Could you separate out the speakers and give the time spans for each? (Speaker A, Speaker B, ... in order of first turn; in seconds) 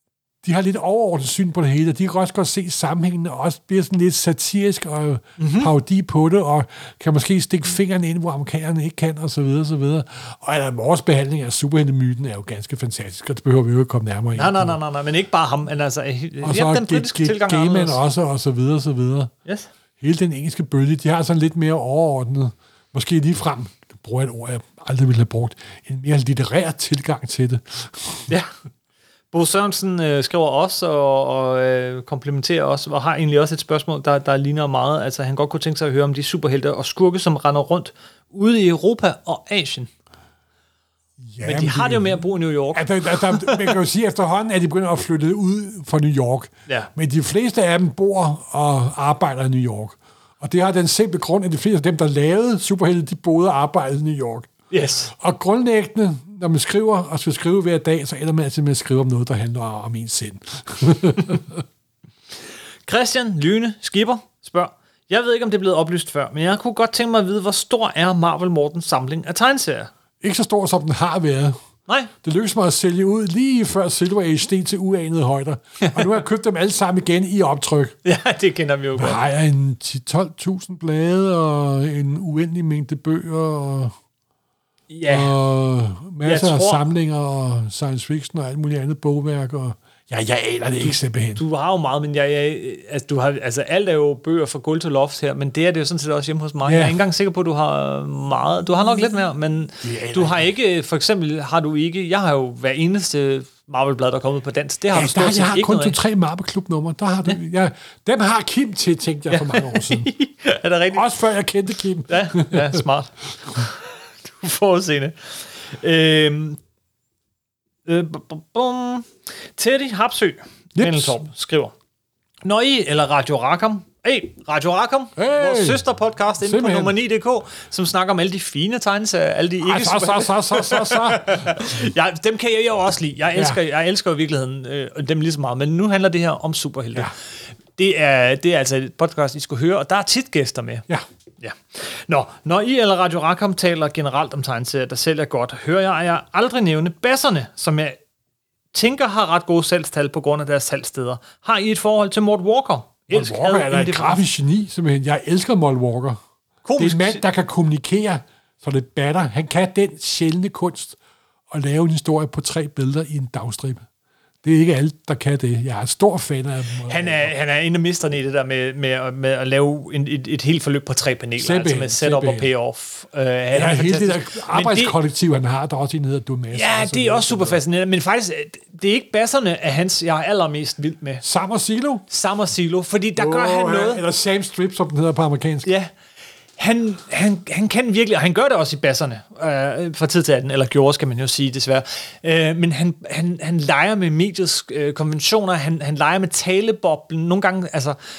Speaker A: 0.4-14.8, 16.4-19.3, 20.0-28.3, 41.2-42.2, 42.7-54.5, 55.1-61.6, 70.2-71.6, 72.2-77.9, 79.0-83.9, 85.1-91.4, 96.6-97.0, 99.8-100.5, 104.9-110.1, 110.9-112.8, 120.7-121.2, 125.2-125.8, 126.4-127.0, 129.6-131.8, 153.1-156.2, 156.8-161.0, 161.5-163.8, 164.4-167.3, 171.4-172.5, 173.5-177.6, 181.2-182.0, 183.2-185.7
Speaker B: 5.4-5.7, 14.3-18.0, 29.3-39.9, 41.4-43.6, 54.7-55.1, 62.9-69.9, 71.9-72.1, 78.0-79.2, 84.9-85.4, 86.2-86.8, 90.8-106.0, 109.3-111.1, 112.1-116.6, 117.8-121.7, 122.4-137.1, 137.8-140.9, 141.4-148.0, 148.7-154.2, 156.6-157.2, 166.9-174.9, 176.5-181.2, 182.1-184.0, 185.6-185.9, 186.6-198.0